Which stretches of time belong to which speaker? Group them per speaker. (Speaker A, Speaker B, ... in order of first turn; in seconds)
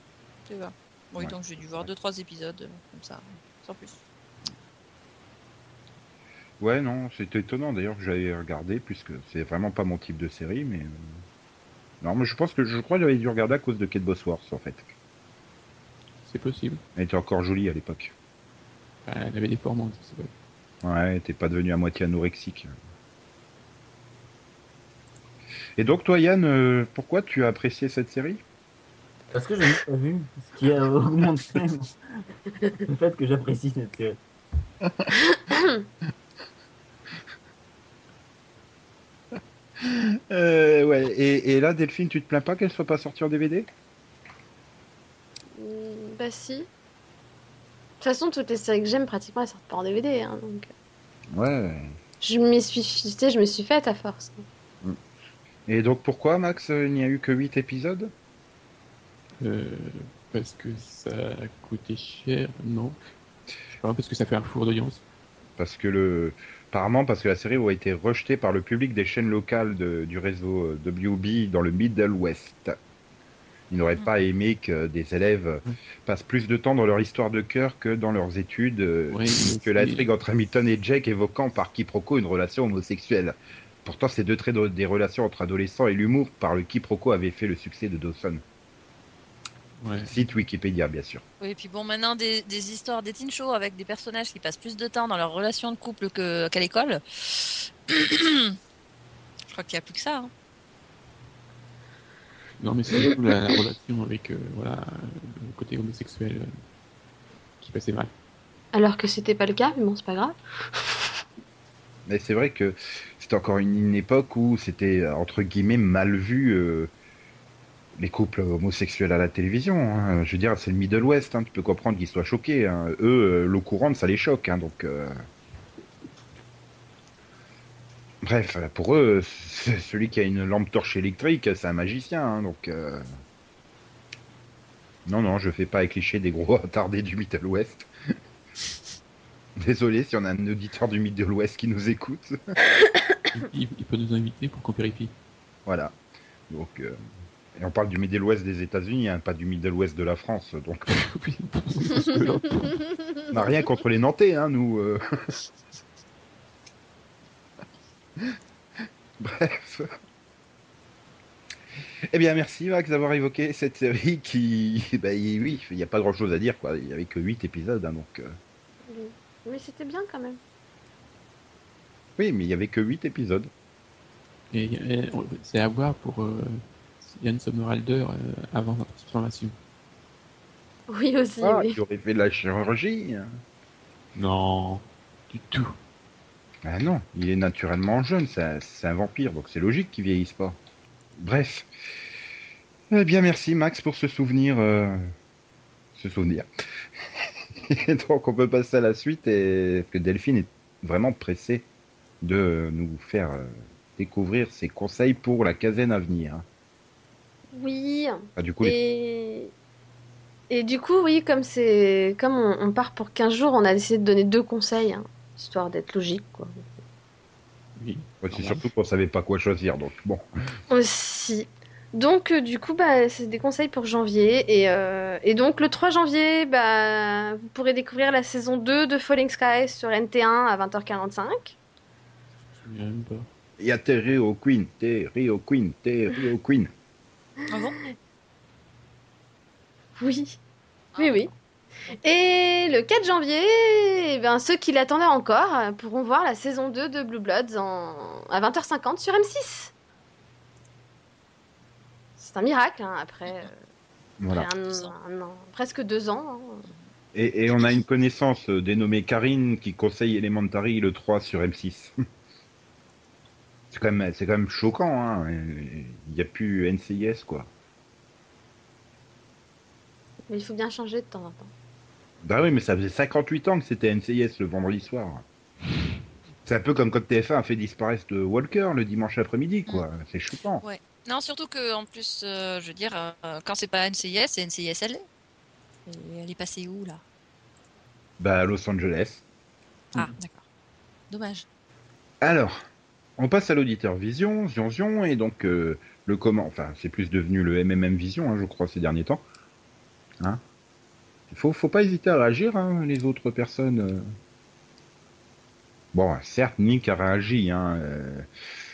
Speaker A: 0.5-4.0, 91.4-98.6, 99.5-100.3, 237.5-237.8, 240.9-241.3, 280.6-285.1, 285.9-287.0, 289.9-290.4, 291.1-291.4
Speaker B: 1.2-1.9, 6.6-11.1, 12.0-14.9, 17.0-18.1, 20.8-22.7, 25.8-28.4, 34.8-35.1, 39.8-43.7, 51.3-52.0, 55.7-58.1, 65.6-72.8, 73.7-88.4, 90.0-91.2, 112.1-116.9, 118.0-125.2, 128.2-133.1, 135.1-137.9, 139.6-142.4, 145.7-145.9, 146.5-147.0, 147.6-150.9, 153.3-155.0, 159.2-159.9, 162.1-168.3, 172.2-173.5, 181.4-183.4, 186.6-190.6, 191.2-191.7, 192.9-195.1, 195.9-196.5, 197.2-201.7, 202.2-206.4, 208.4-208.8, 218.2-220.2, 233.6-236.7, 254.2-254.5, 257.1-261.9, 263.7-267.5, 272.2-275.2, 276.5-280.6, 288.2-289.2, 292.2-292.6, 293.2-299.2, 301.3-304.1, 305.9-308.3
Speaker C: 16.2-16.8, 19.1-20.3, 59.4-63.0, 63.7-65.0, 79.1-80.1, 89.8-90.1, 102.6-106.5, 107.6-108.1, 143.3-145.1, 150.9-153.0, 174.5-179.5, 184.2-185.8, 217.8-218.6, 232.5-233.3
Speaker D: 29.3-32.2, 32.9-34.2
Speaker E: 35.2-35.8, 45.5-46.7, 48.0-50.7, 52.2-54.5, 108.7-110.9, 168.9-170.4, 180.9-181.8, 207.5-209.5, 210.5-216.7, 220.7-231.6, 240.0-240.4, 241.0-241.3, 242.0-249.7, 252.2-253.6, 254.3-256.7, 270.3-271.5